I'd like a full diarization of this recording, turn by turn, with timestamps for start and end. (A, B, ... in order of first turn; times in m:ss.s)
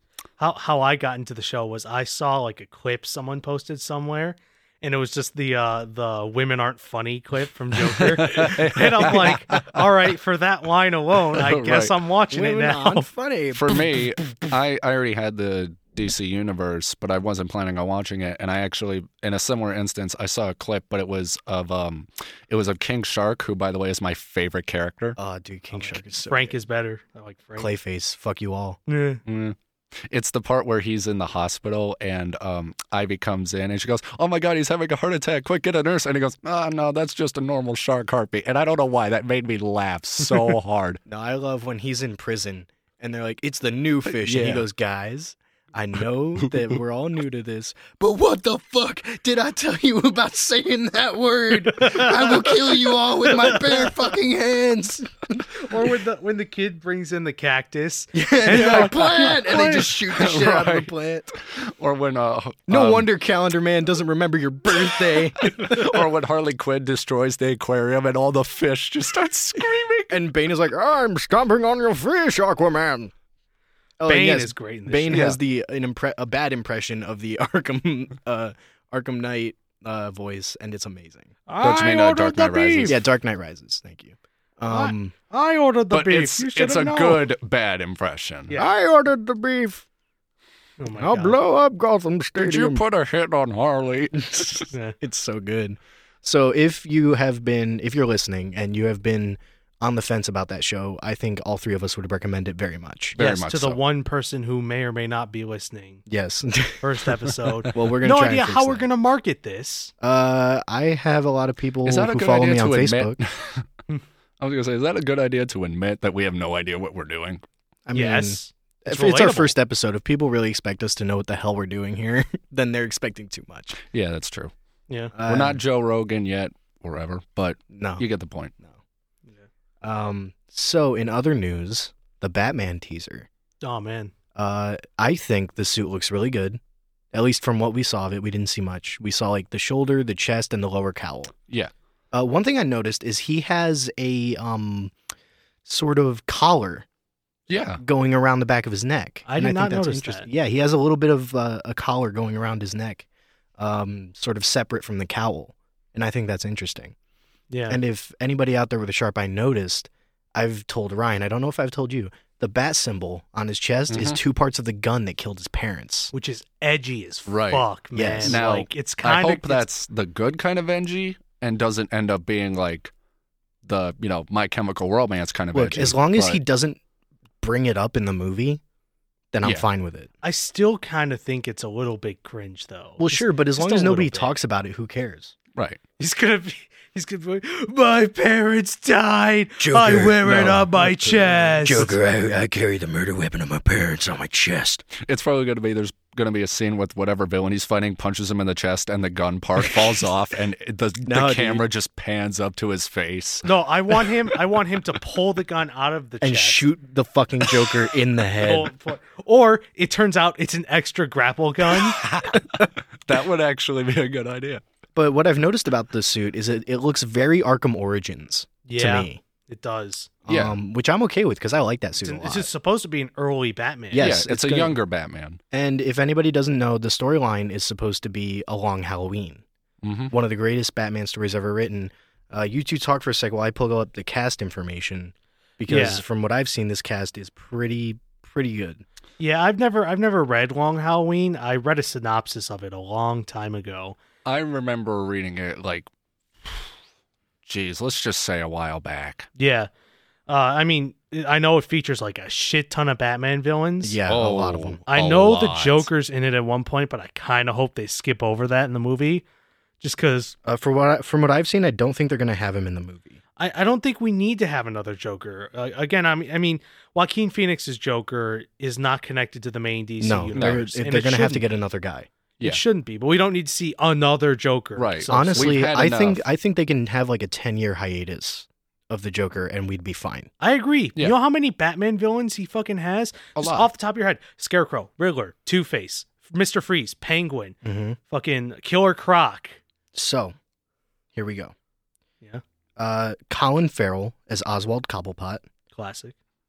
0:00.4-0:13.1 A
0:08.0-0:09.8 B
0:11.3-0:12.0 B
0:12.3-0:13.8 C
0:13.5-0:25.2 B
0:25.2-0:26.6 C
0:25.8-0:27.7 A
0:27.6-0:28.8 C
0:28.9-0:29.2 A
0:29.2-0:29.6 B
0:30.1-0:41.0 B
0:41.1-0:56.0 C
0:44.2-0:44.6 B
0:51.8-0:52.4 A
0:55.7-0:59.9 A
0:58.1-1:01.3 C
0:58.5-1:03.1 B
1:02.7-1:06.0 C
1:05.1-1:10.2 B
1:10.1-1:13.1 C
1:14.0-1:21.4 C
1:14.0-1:15.3 A
1:15.1-1:15.4 B
1:21.5-1:23.0 A
1:21.6-1:23.0 B
1:22.9-1:25.1 C
1:24.7-1:27.2 A
1:25.9-1:28.5 B
1:28.5-1:28.7 A
1:28.5-1:29.8 C
1:30.8-1:31.4 A
1:30.9-1:32.8 C
1:32.4-1:34.7 B
1:34.7-1:35.0 A
1:35.0-1:43.2 C
1:43.2-1:43.8 B
1:43.2-1:46.0 A
1:46.1-1:46.8 C
1:46.8-1:49.9 A
1:47.7-1:48.9 C
1:50.0-1:53.2 C
1:51.8-1:53.7 B
1:54.4-1:57.4 B
1:57.9-2:03.8 C
1:57.9-1:59.5 A
2:03.8-2:04.5 B
2:05.1-2:05.6 C
2:05.2-2:08.5 B
2:07.7-2:08.0 C
2:09.8-2:13.3 C
2:13.6-2:14.1 A
2:14.3-2:16.6 C
2:17.1-2:21.3 C
2:22.1-2:24.9 C
2:25.6-2:26.8 C
2:27.5-2:27.8 B
2:27.8-2:33.0 C
2:29.3-2:30.3 A
2:33.6-2:36.9 C
2:37.5-2:37.8 A
2:37.7-2:46.1 C
2:43.9-2:44.2 B
2:46.1-2:49.6 A
2:47.3-2:47.6 B
2:47.9-2:48.4 C
2:48.2-2:52.9 B
2:53.6-2:56.4 B
2:55.5-2:56.8 C
2:57.4-2:58.6 C
2:59.3-3:00.1 C
3:00.2-3:04.3 A
3:03.0-3:05.3 C
3:06.0-3:12.0 A
3:09.6-3:14.8 C
3:14.9-3:23.5 B
3:19.6-3:19.9 C
3:21.0-3:21.6 C
3:23.4-3:26.6 A
3:26.2-3:28.7 C
3:28.4-3:32.0 A
3:31.7-3:34.6 B
3:35.0-3:39.2 C
3:38.6-3:40.1 A
3:40.2-3:42.5 C
3:40.3-3:40.6 B
3:42.0-3:44.2 A
3:43.9-3:44.8 C
3:44.0-3:45.4 B
3:45.5-3:49.4 C
3:49.8-3:50.1 B
3:50.1-3:58.8 C
3:55.7-3:56.0 A
3:59.2-4:04.0 A
4:04.2-4:05.9 B
4:06.4-4:06.7 B
4:07.4-4:09.3 B
4:09.4-4:09.7 A
4:10.3-4:14.0 A
4:13.8-4:14.8 C
4:14.1-4:15.9 B
4:14.9-4:19.2 A
4:19.8-4:20.3 A
4:20.4-4:23.2 C
4:23.4-4:31.5 A
4:30.0-4:32.1 C
4:30.3-4:30.6 B
4:32.4-4:35.5 A
4:34.8-4:36.2 B
4:35.1-4:40.3 C
4:40.4-4:47.6 A
4:43.4-4:43.7 B
4:47.6-4:48.0 C
4:48.1-4:49.6 A
4:49.9-4:50.4 C
4:51.1-4:51.5 C
4:52.8-4:55.4 C
4:55.7-4:56.1 A